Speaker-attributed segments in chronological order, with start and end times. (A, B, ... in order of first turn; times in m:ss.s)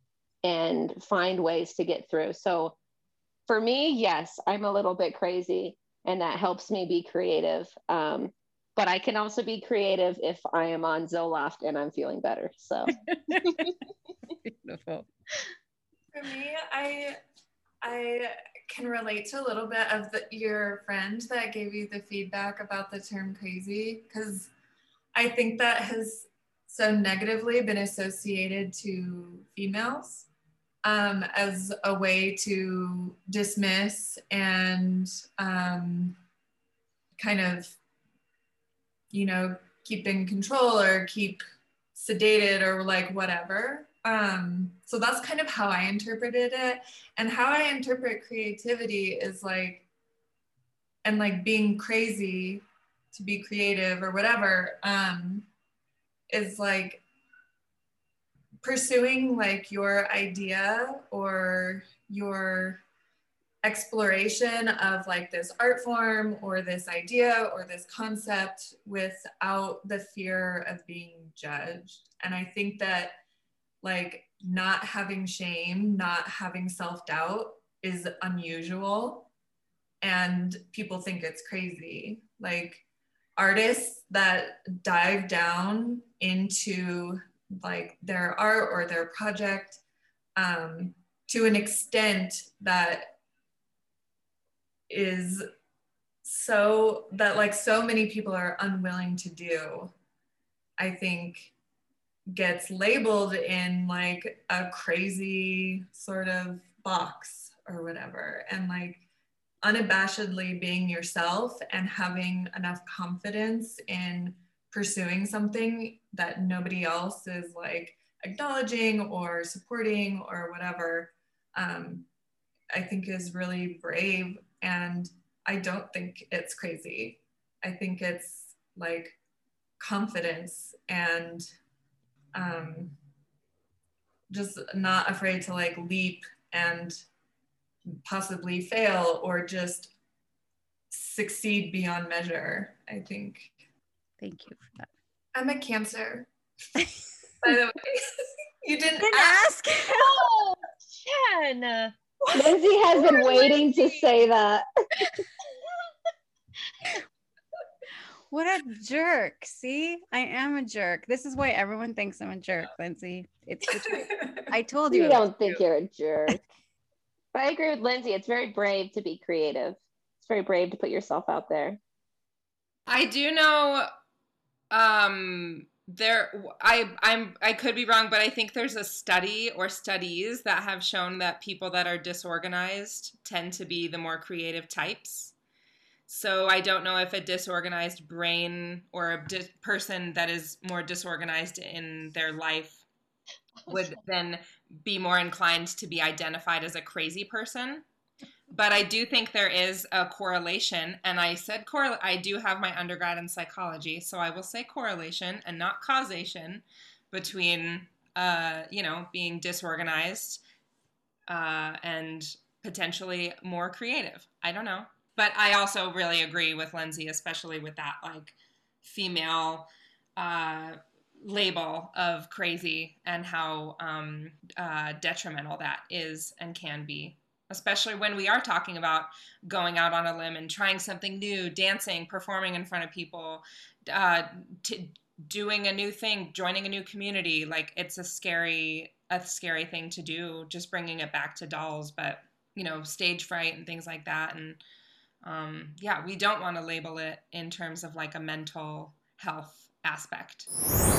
0:00.4-0:02.8 A
0:03.5-0:12.9 A
0:14.4-0:15.1 B
0:16.1-0:17.2 C
0:17.8-0:24.5 C
0:25.1-0:30.3 C
0:30.8-0:36.2 C
0:37.2-0:37.8 C
0:39.1-0:41.4 C
0:42.0-0:49.8 C
0:51.0-0:55.5 C
0:56.3-0:57.0 C
0:58.6-1:02.8 C
1:03.6-1:13.2 C
1:13.8-1:19.3 C
1:20.0-1:22.8 C
1:23.4-1:29.8 C
1:30.4-1:33.1 C
1:34.9-1:35.4 C
1:36.2-1:39.9 C
1:40.8-1:41.5 C
1:42.3-1:49.0 C
1:49.6-2:02.0 C
2:02.7-2:09.2 C
2:09.8-2:11.5 C
2:12.3-2:12.9 C
2:14.3-2:17.0 C
2:18.0-2:19.9 C
2:20.9-2:23.5 C
2:24.2-2:24.9 B
2:25.4-2:26.3 C
2:27.4-2:29.4 C
2:29.0-2:30.2 B
2:29.8-2:31.9 D
2:32.4-2:34.6 A
2:33.1-2:33.6 D
2:38.3-2:45.6 B
2:44.9-2:46.4 A
2:47.3-2:51.8 A
2:52.9-2:53.9 E
2:54.7-3:05.3 E
3:06.1-3:12.8 E
3:13.7-3:17.8 E
3:18.5-3:30.4 E
3:31.3-4:04.6 E
4:05.2-4:10.5 E